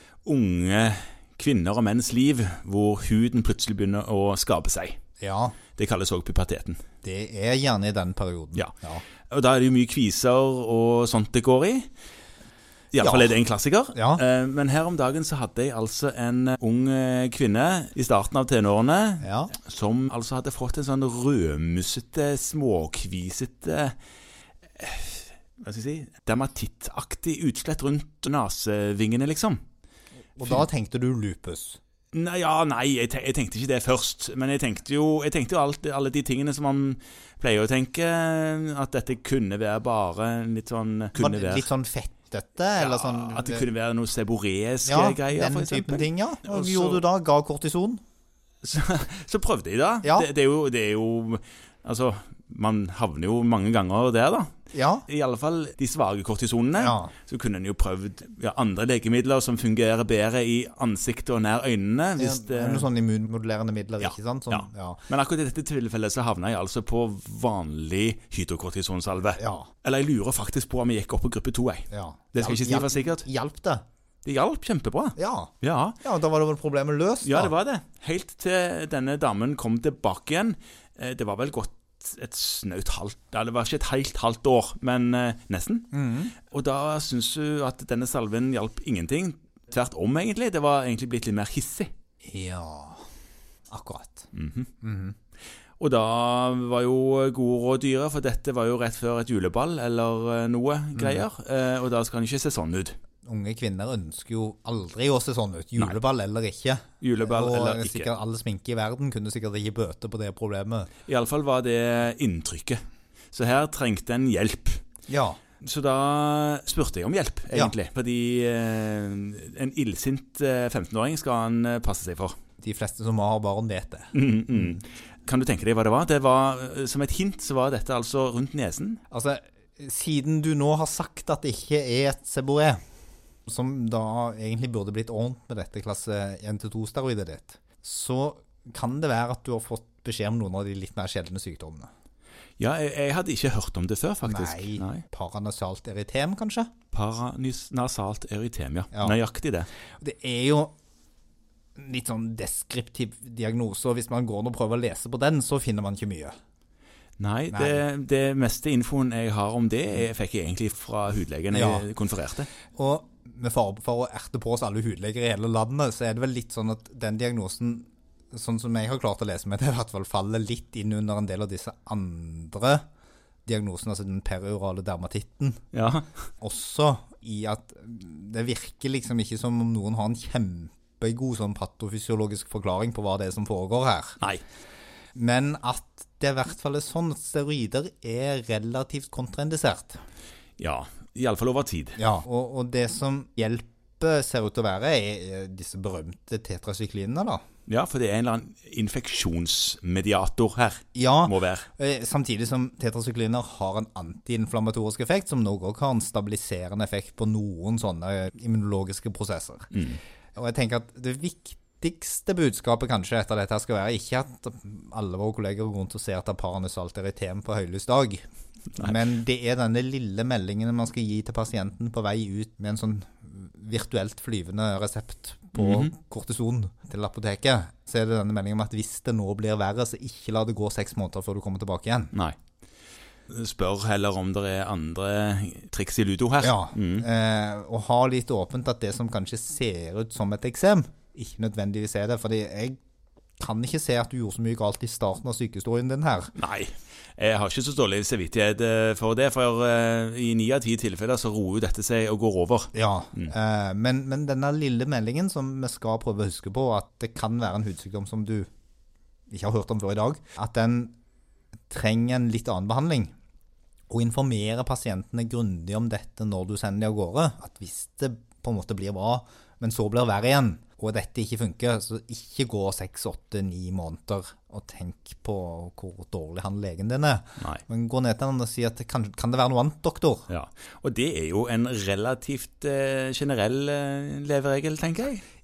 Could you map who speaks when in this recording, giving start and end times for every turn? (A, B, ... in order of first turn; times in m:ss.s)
0:00.2-0:05.0 A
0:05.2-0:05.6 B
0:05.8-0:06.8 A
0:07.0-0:09.0 B
0:09.3-0:11.9 A
0:12.9-0:24.0 A
0:13.0-0:13.3 B
0:13.9-0:14.2 B
0:19.2-0:19.5 B
0:24.8-0:29.6 A
0:30.4-0:31.8 B
0:32.1-0:41.7 A
0:41.2-0:43.7 B
0:42.8-0:47.0 A
0:44.8-0:48.0 B
0:48.6-0:54.5 A
0:50.0-0:50.3 B
0:54.7-0:55.0 B
0:55.1-1:02.9 A
0:56.8-0:57.1 B
1:02.2-1:05.0 B
1:04.0-1:13.3 A
1:09.4-1:09.7 B
1:11.9-1:13.8 B
1:14.2-1:16.0 A
1:15.2-1:15.5 B
1:16.0-1:17.5 B
1:17.2-1:25.9 A
1:25.9-1:26.3 B
1:26.4-1:31.9 A
1:32.2-1:33.0 B
1:33.7-1:34.3 B
1:34.3-1:34.7 A
1:34.8-1:35.1 B
1:35.8-1:43.0 A
1:43.2-1:50.9 B
1:47.0-1:48.1 A
1:51.1-1:52.8 A
1:53.3-1:54.8 A
1:55.1-1:55.4 B
1:55.6-2:02.3 A
2:02.6-2:04.8 B
2:04.1-2:09.0 A
2:09.1-2:12.8 B
2:13.4-2:21.9 B
2:22.6-2:25.0 A
2:24.2-2:26.7 B
2:26.9-2:29.7 A
2:28.9-2:29.2 B
2:30.0-2:30.7 B
2:31.8-2:36.3 B
2:37.2-2:42.5 A
2:37.5-2:37.8 B
2:41.5-2:41.9 B
2:42.7-2:52.8 B
2:53.4-2:55.6 B
2:55.7-2:56.1 A
2:56.4-3:04.2 B
3:05.1-3:10.0 B
3:10.6-3:12.0 A
3:12.0-3:17.4 B
3:17.7-3:21.7 A
3:20.9-3:29.7 B
3:29.7-3:30.0 A
3:30.3-3:38.2 B
3:38.8-3:52.1 B
3:45.6-3:45.9 A
3:53.3-3:57.1 A
3:56.4-4:02.8 B
4:03.4-4:06.3 B
4:06.3-4:13.3 A
4:12.7-4:18.5 B
4:19.3-4:20.9 B
4:21.7-4:23.1 B
4:23.9-4:40.3 B
4:40.3-4:45.2 A